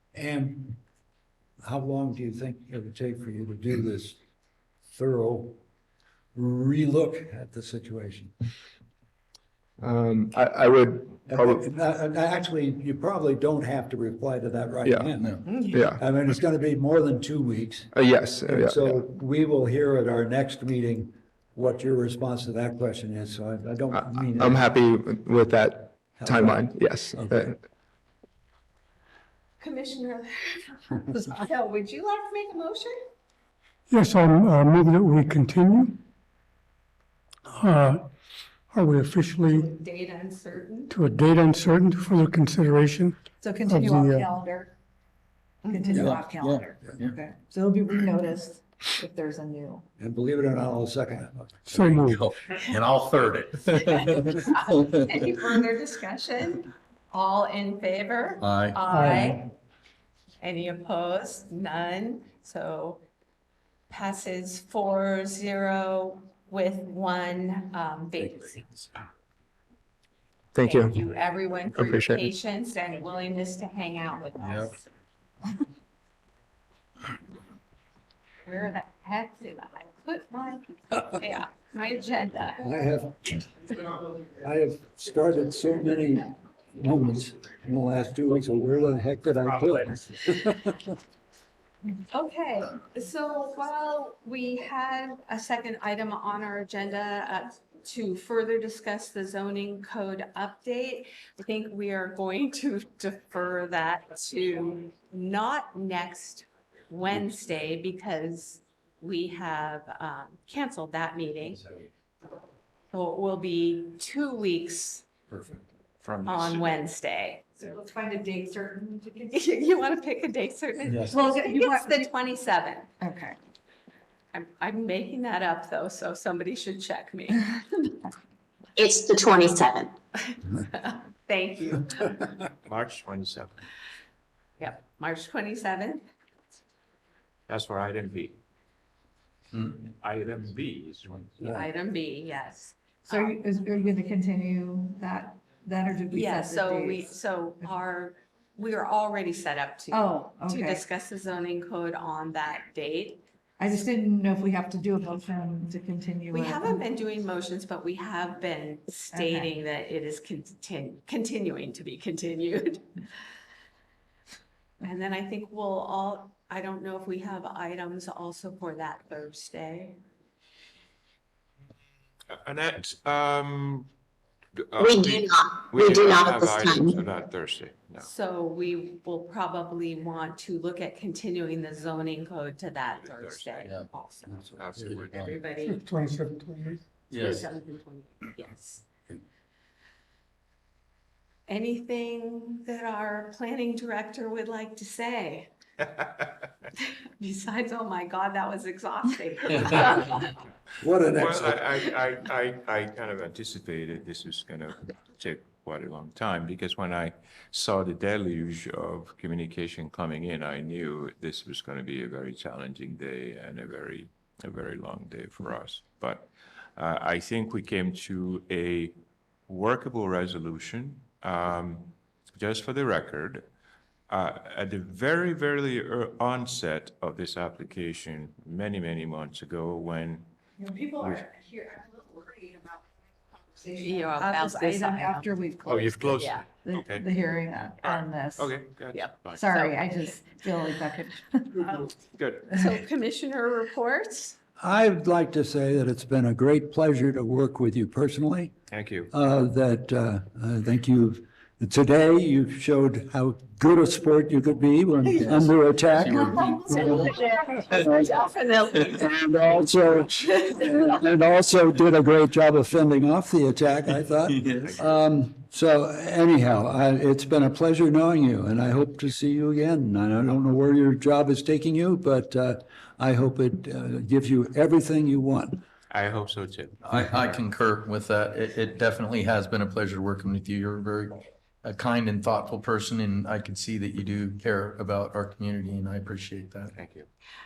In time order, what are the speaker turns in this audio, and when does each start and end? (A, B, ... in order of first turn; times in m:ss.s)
0:00.2-0:00.8 A
0:01.6-0:04.2 A
0:04.9-0:05.6 A
0:06.4-0:08.3 A
0:09.8-0:11.7 B
0:11.3-0:17.9 A
0:14.8-0:16.1 B
0:15.5-0:15.8 C
0:17.9-0:19.1 B
0:18.4-0:24.7 A
0:23.9-0:27.6 B
0:26.2-0:27.4 A
0:29.6-0:33.0 C
0:33.9-0:36.0 D
0:37.5-0:38.1 D
0:38.7-0:39.7 D
0:39.5-0:41.0 C
0:40.9-0:44.3 D
0:43.4-0:44.7 E
0:45.6-0:46.1 C
0:45.7-0:49.8 E
0:45.9-0:47.2 F
0:50.0-0:51.7 A
0:51.7-0:52.3 D
0:51.8-0:54.4 F
0:53.8-0:59.5 C
0:58.4-0:58.8 F
0:58.9-0:59.4 D
1:00.4-1:03.0 C
1:03.9-1:08.7 C
1:10.6-1:11.0 B
1:10.6-1:14.8 C
1:11.8-1:12.3 B
1:14.4-1:14.7 F
1:18.5-1:22.6 C
1:22.6-1:30.9 A
1:32.1-1:51.6 C
1:52.9-1:55.1 C
1:56.0-1:56.8 G
1:56.3-1:57.6 C
1:57.6-1:59.5 E
1:59.3-2:02.9 C
2:01.1-2:02.1 E
2:03.0-2:03.4 E
2:04.3-2:08.0 C
2:08.8-2:09.9 H
2:10.2-2:12.2 C
2:12.6-2:13.5 G
2:14.6-2:16.1 C
2:17.5-2:18.4 G
2:19.6-2:21.3 G
2:21.4-2:23.4 C
2:23.1-2:27.1 E
2:26.1-2:33.2 C
2:29.9-2:30.8 E
2:33.6-2:36.8 E
2:36.3-2:42.9 C
2:39.1-2:39.5 E
2:44.8-2:50.0 C
2:52.3-2:53.9 G
2:54.7-2:58.1 G
2:54.8-2:57.0 H
2:58.0-3:04.3 C
3:03.0-3:03.7 G
3:04.4-3:05.3 F
3:04.6-3:05.4 G
3:05.2-3:05.9 C
3:05.6-3:06.8 D
3:07.1-3:07.5 F
3:07.2-3:08.9 C
3:11.5-3:15.5 C
3:16.8-3:20.4 C
3:20.8-3:21.7 A
3:21.2-3:39.0 G
3:39.5-3:43.5 G
3:44.1-3:50.3 G
3:50.6-3:58.7 E
3:51.0-3:51.2 G
3:53.8-3:55.3 C
3:55.7-3:57.1 G
3:56.2-3:56.5 C
3:57.8-3:59.4 G
3:58.9-3:59.8 C
3:59.3-4:01.6 E
4:01.6-4:02.5 G
4:02.5-4:04.4 C
4:04.6-4:08.5 A
4:08.7-4:09.1 G
4:09.1-4:16.4 A
4:15.2-4:17.2 F
4:16.4-4:19.0 C
4:17.7-4:18.2 A
4:18.8-4:35.6 A
4:24.3-4:24.8 F
4:24.6-4:25.0 G
4:35.9-4:37.4 G
4:36.8-4:46.8 F
4:46.7-4:47.1 G